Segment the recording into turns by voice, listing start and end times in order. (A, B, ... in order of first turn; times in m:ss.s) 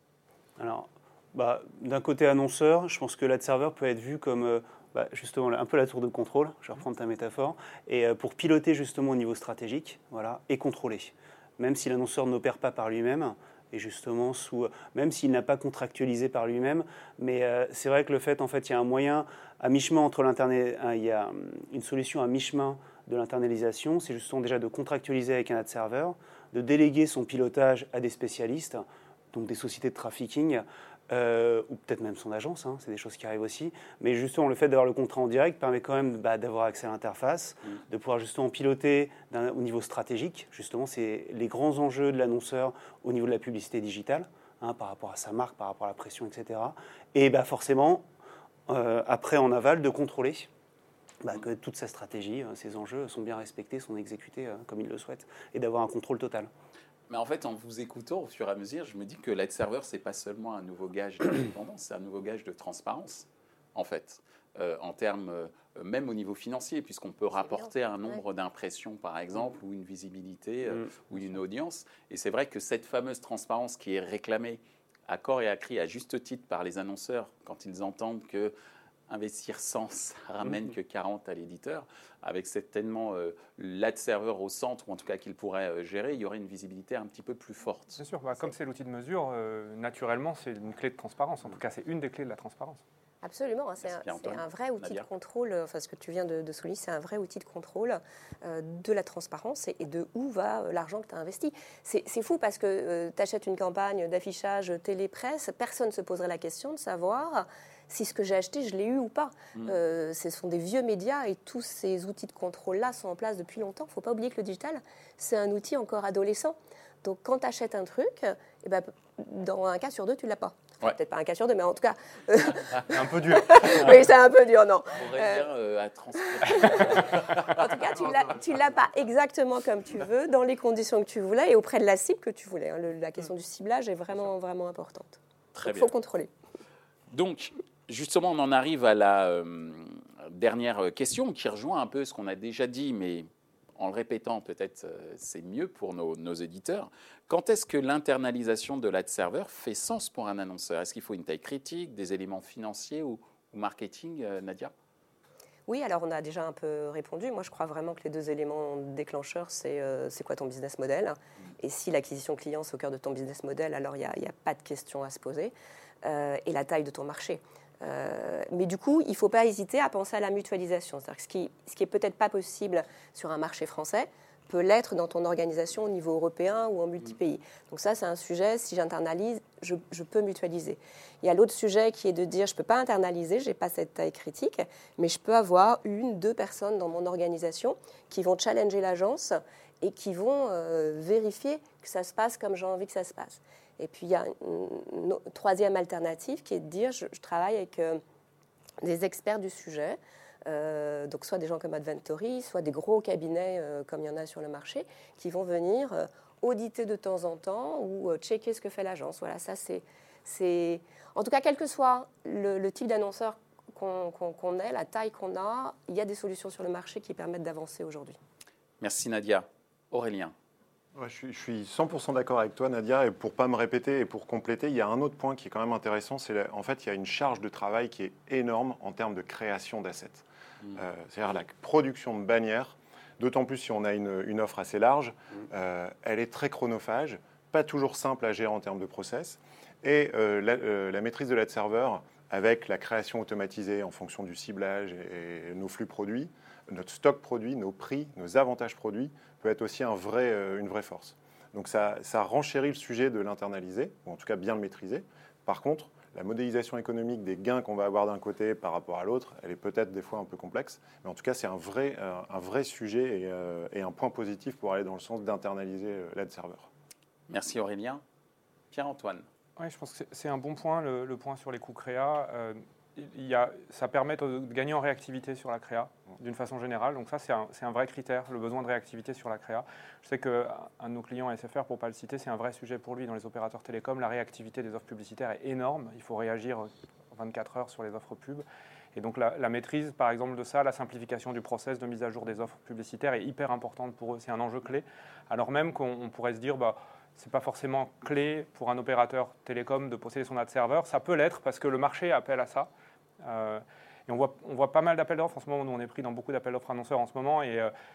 0:00.6-0:48.0 A
0:48.7-0:50.5 A
0:51.2-0:56.5 A
0:57.1-1:18.5 B
1:07.4-1:08.2 C
1:10.7-1:11.0 A
1:19.1-1:28.0 B
1:28.0-1:32.8 D
1:33.2-2:05.5 C
1:33.8-1:35.1 B
2:02.9-2:03.8 D
2:04.9-2:07.7 B
2:06.2-2:16.3 C
2:15.5-2:15.9 B
2:17.1-2:34.7 B
2:35.7-3:18.0 C
3:18.8-3:38.2 C
3:38.8-3:40.3 B
3:40.9-4:26.7 E
4:27.3-4:28.0 B
4:28.7-4:29.2 B
4:29.6-4:48.4 D
4:48.9-5:02.7 D
5:03.2-5:07.7 D